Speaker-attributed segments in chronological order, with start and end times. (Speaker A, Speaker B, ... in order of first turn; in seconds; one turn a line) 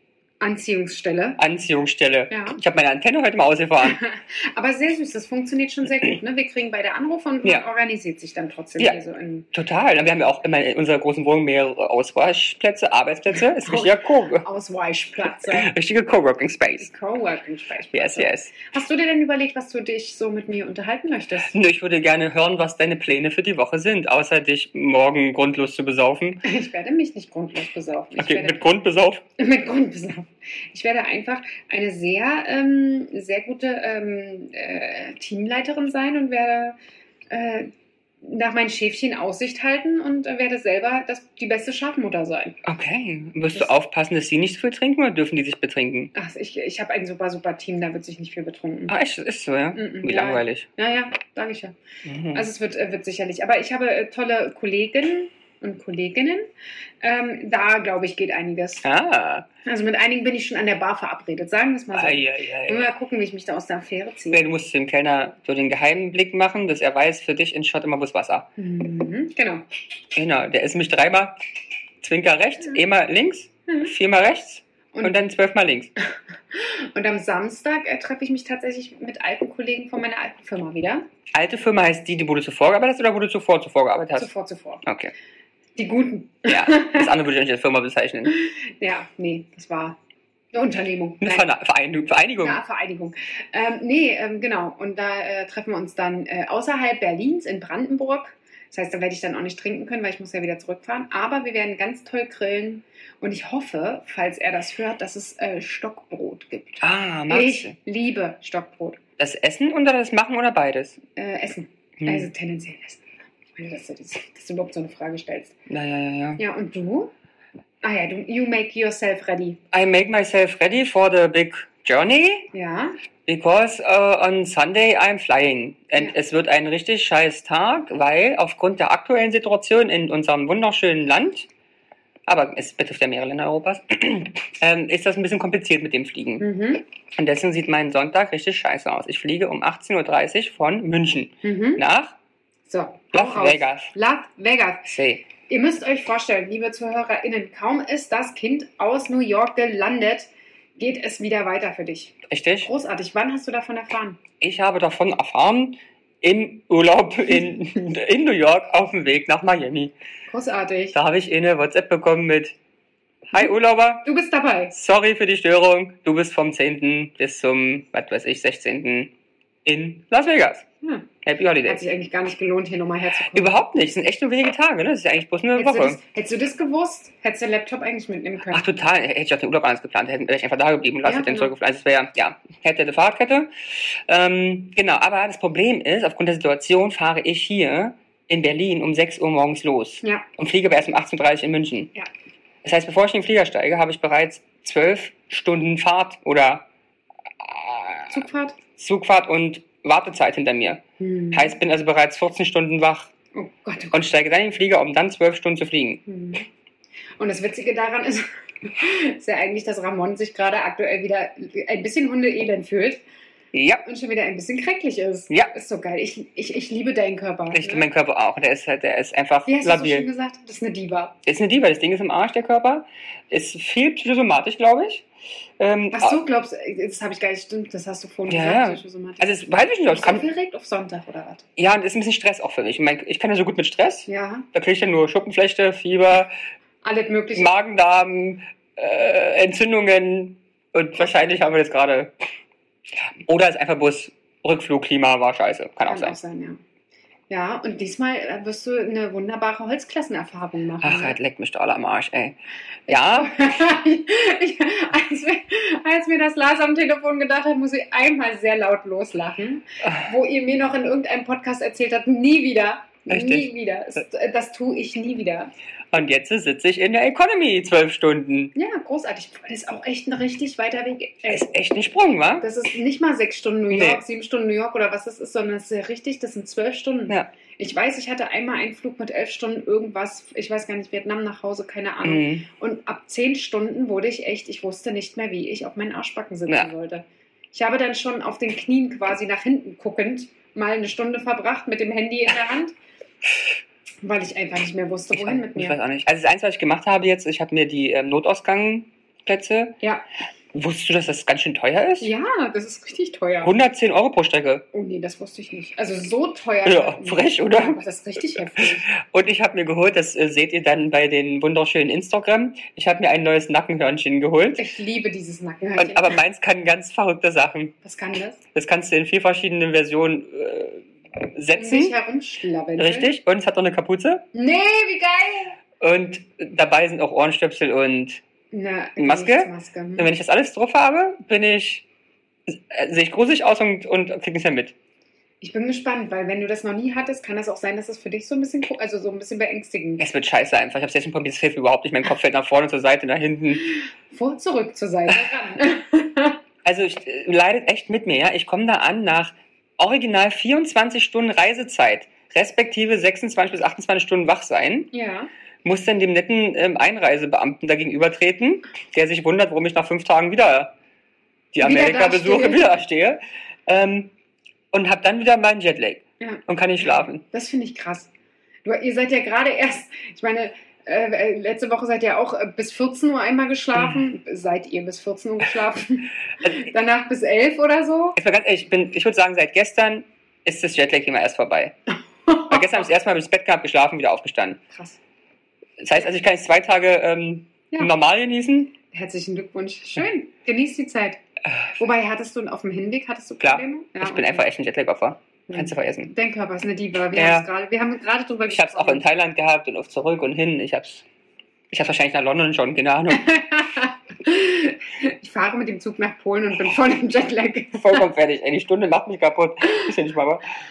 Speaker A: 0.4-1.4
Speaker B: 1.4-4.0
Speaker A: 2.3-2.6
Speaker A: 3.8-9.5
Speaker B: 9.5-14.5
Speaker A: 13.6-15.7
Speaker B: 15.3-16.9
Speaker A: 16.8-21.5
Speaker B: 17.9-18.5
Speaker B: 21.5-26.4
Speaker A: 26.4-28.6
Speaker B: 28.2-29.2
Speaker A: 29.4-36.8
Speaker A: 37.3-37.7
Speaker A: 38.2-42.6
Speaker B: 42.6-46.1
Speaker A: 46.1-49.0
Speaker B: 48.9-50.7
Speaker A: 49.8-51.8
Speaker B: 52.0-52.5
Speaker A: 52.3-56.5
Speaker A: 57.0-58.8
Speaker B: 58.8-59.5
Speaker A: 59.6-64.4
Speaker B: 61.9-62.9
Speaker B: 64.3-68.5
Speaker A: 68.6-69.6
Speaker B: 70.2-71.4
Speaker B: 72.0-75.9
Speaker A: 74.9-75.2
Speaker A: 76.5-81.1
Speaker B: 81.3-84.3
Speaker A: 84.2-84.8
Speaker B: 84.8-85.1
Speaker A: 85.8-87.1
Speaker B: 86.5-88.3
Speaker A: 88.3-90.0
Speaker A: 90.5-91.5
Speaker B: 91.2-92.6
Speaker A: 92.4-109.0
Speaker B: 106.8-107.8
Speaker B: 109.2-111.0
Speaker A: 111.1-115.6
Speaker B: 112.0-112.3
Speaker B: 115.7-116.4
Speaker A: 116.4-117.1
Speaker A: 117.8-119.6
Speaker B: 119.7-122.5
Speaker A: 122.5-123.0
Speaker B: 123.3-131.5
Speaker B: 132.3-136.5
Speaker A: 136.4-136.8
Speaker B: 137.2-142.2
Speaker A: 141.4-141.8
Speaker A: 142.7-144.9
Speaker B: 143.1-143.9
Speaker B: 144.9-145.2
Speaker A: 145.5-154.2
Speaker B: 152.3-152.7
Speaker B: 154.4-159.9
Speaker A: 160.3-161.0
Speaker B: 160.9-162.6
Speaker B: 163.3-164.1
Speaker A: 164.1-164.7
Speaker B: 164.7-169.1
Speaker B: 169.7-170.7
Speaker A: 170.8-171.1
Speaker B: 171.2-171.8
Speaker A: 171.7-173.6
Speaker B: 173.3-176.0
Speaker A: 175.6-178.7
Speaker B: 178.5-191.9
Speaker A: 181.0-181.5
Speaker B: 192.6-196.7
Speaker B: 197.4-198.2
Speaker A: 198.1-198.6
Speaker B: 198.8-203.1
Speaker A: 201.0-201.6
Speaker A: 203.3-204.0
Speaker B: 203.9-206.0
Speaker A: 206.1-206.5
Speaker A: 207.2-213.0
Speaker B: 213.5-213.8
Speaker A: 213.8-217.9
Speaker B: 217.5-220.1
Speaker A: 219.5-221.2
Speaker B: 221.2-225.1
Speaker B: 225.6-226.2
Speaker A: 225.9-231.5
Speaker B: 228.3-230.3
Speaker B: 231.6-236.3
Speaker A: 234.1-234.5
Speaker A: 236.8-237.5
Speaker B: 237.3-242.1
Speaker B: 243.2-246.2
Speaker A: 245.9-246.6
Speaker A: 247.3-251.2
Speaker B: 250.8-252.4
Speaker B: 252.9-253.3
Speaker A: 252.9-265.5
Speaker B: 259.8-260.1
Speaker B: 263.1-263.5
Speaker B: 265.9-268.5
Speaker A: 268.6-271.5
Speaker B: 271.3-272.5
Speaker A: 272.4-292.8
Speaker B: 273.7-274.0
Speaker B: 282.0-282.5
Speaker A: 294.0-295.8
Speaker B: 295.1-299.8
Speaker B: 300.5-302.1
Speaker A: 302.0-303.6
Speaker B: 303.4-304.6
Speaker A: 304.7-308.9
Speaker B: 306.6-307.8
Speaker B: 308.3-314.7
Speaker A: 314.6-316.2
Speaker B: 315.8-317.8
Speaker A: 317.8-318.4
Speaker B: 318.6-321.9
Speaker A: 321.5-323.1
Speaker B: 322.8-324.2
Speaker A: 324.3-325.6
Speaker B: 325.8-328.2
Speaker A: 328.5-330.1
Speaker B: 329.0-331.9
Speaker B: 332.5-334.8
Speaker A: 335.4-340.1
Speaker B: 340.0-343.7
Speaker A: 344.1-346.4
Speaker B: 346.6-354.9
Speaker A: 354.9-355.3
Speaker B: 355.6-360.7
Speaker B: 361.5-364.1
Speaker A: 361.6-362.8
Speaker B: 364.7-367.2
Speaker A: 366.2-368.1
Speaker A: 368.6-378.2
Speaker B: 378.2-381.8
Speaker A: 382.3-382.9
Speaker B: 382.5-384.6
Speaker A: 384.7-385.0
Speaker B: 385.8-388.8
Speaker A: 388.9-391.2
Speaker A: 391.8-394.5
Speaker B: 393.4-396.1
Speaker A: 395.5-399.0
Speaker B: 397.1-397.5
Speaker B: 398.5-401.1
Speaker B: 401.7-403.3
Speaker A: 403.1-408.1
Speaker B: 407.8-410.4